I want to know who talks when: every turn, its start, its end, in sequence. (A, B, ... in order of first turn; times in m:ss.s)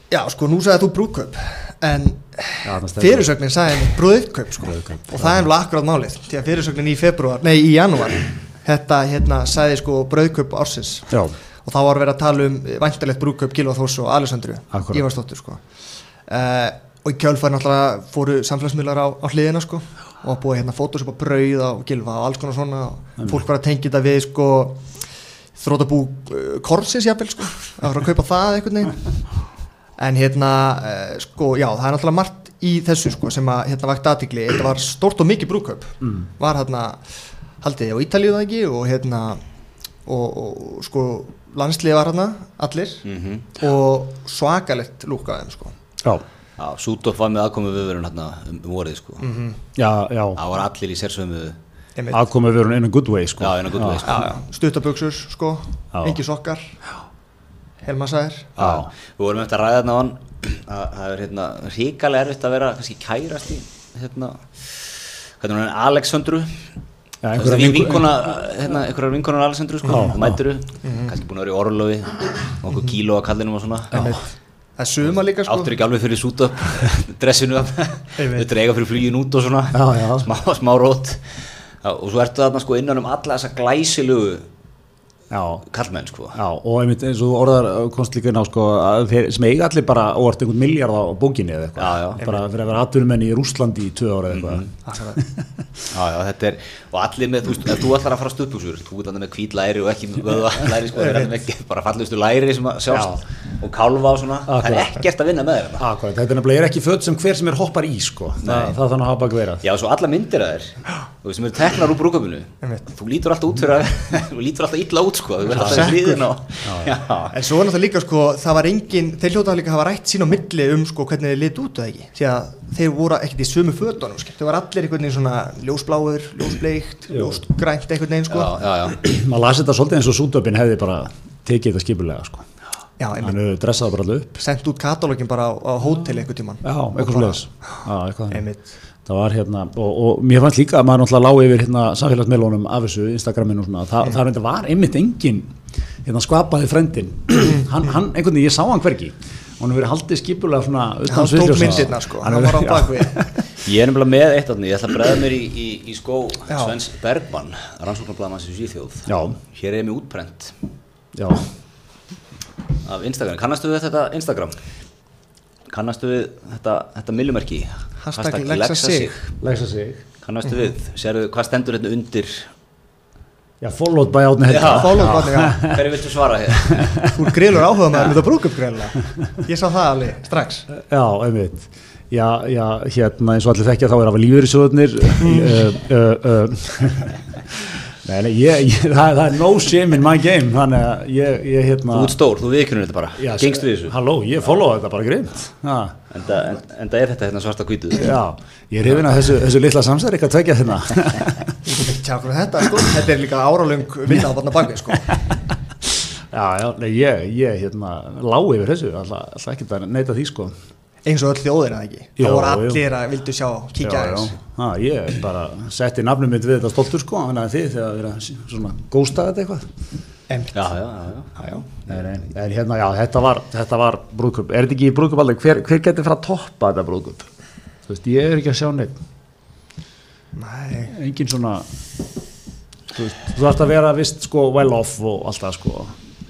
0:00.1-0:11.1 A
0:02.6-0:03.3 B
0:04.6-0:05.5 B
0:11.6-0:15.6 A
0:14.7-0:15.0 B
0:16.3-0:24.8 A
0:25.6-0:29.0 A
0:30.0-0:37.0 A
0:37.6-0:39.4 A
0:40.0-0:43.0 A
0:43.0-0:43.5 C
0:43.6-0:45.7 A
0:46.6-0:49.2 C
0:49.2-0:49.6 A
0:49.7-0:50.4 B
0:50.4-0:51.6 C
0:52.0-0:52.2 A
0:52.1-0:54.1 B
0:53.4-0:54.2 C
0:54.0-0:56.7 A
0:57.8-0:58.5 A
0:58.6-1:04.9 C
0:58.6-0:58.9 B
1:05.4-1:06.6 C
1:07.2-1:08.2 B
1:07.4-1:14.1 C
1:09.9-1:10.4 B
1:10.8-1:11.1 A
1:13.9-1:14.2 A
1:14.8-1:15.7 A
1:15.4-1:24.4 C
1:18.2-1:18.5 A
1:19.7-1:20.3 B
1:25.3-1:25.6 B
1:25.7-1:26.4 C
1:26.3-1:34.6 B
1:31.8-1:32.2 C
1:32.2-1:32.4 A
1:34.3-1:34.7 C
1:34.8-1:35.2 A
1:35.2-1:35.8 B
1:35.9-1:45.8 C
1:40.9-1:41.3 A
1:42.9-1:43.2 B
1:44.5-1:45.0 B
1:45.8-1:49.6 B
1:48.4-1:48.8 C
1:49.6-1:57.4 C
1:55.6-1:55.9 B
1:55.6-1:56.3 A
1:56.6-1:57.0 B
1:57.3-2:08.6 A
2:07.1-2:07.4 B
2:08.3-2:09.0 C
2:08.9-2:12.4 B
2:13.0-2:13.4 A
2:13.2-2:14.4 B
2:14.4-2:17.4 A
2:16.6-2:18.4 B
2:18.3-2:18.6 A
2:19.0-2:25.5 B
2:26.0-2:33.3 B
2:31.1-2:33.2 A
2:33.6-2:40.5 C
2:36.5-2:36.7 A
2:39.1-2:39.4 B
2:41.1-2:41.5 B
2:42.8-2:44.6 C
2:45.7-2:49.3 C
2:48.0-2:49.1 A
2:49.4-2:50.0 B
2:50.2-2:52.5 C
2:53.6-2:55.9 B
2:54.5-2:57.0 C
2:54.7-2:55.7 A
2:56.6-2:57.1 B
2:57.0-3:00.7 A
3:00.7-3:12.2 B
3:05.2-3:05.6 A
3:11.9-3:13.9 C
3:13.2-3:16.0 B
3:16.1-3:18.1 C
3:18.0-3:21.6 B
3:21.6-3:25.1 A
3:26.3-3:30.5 B
3:31.0-3:34.3 A
3:32.2-3:32.8 B
3:33.8-3:39.7 B
3:40.3-3:40.7 A
3:40.5-3:41.9 C
3:41.9-3:47.3 B
3:47.8-3:49.0 B
3:50.4-3:50.9 A
3:50.9-3:51.7 B
3:52.9-3:55.9 B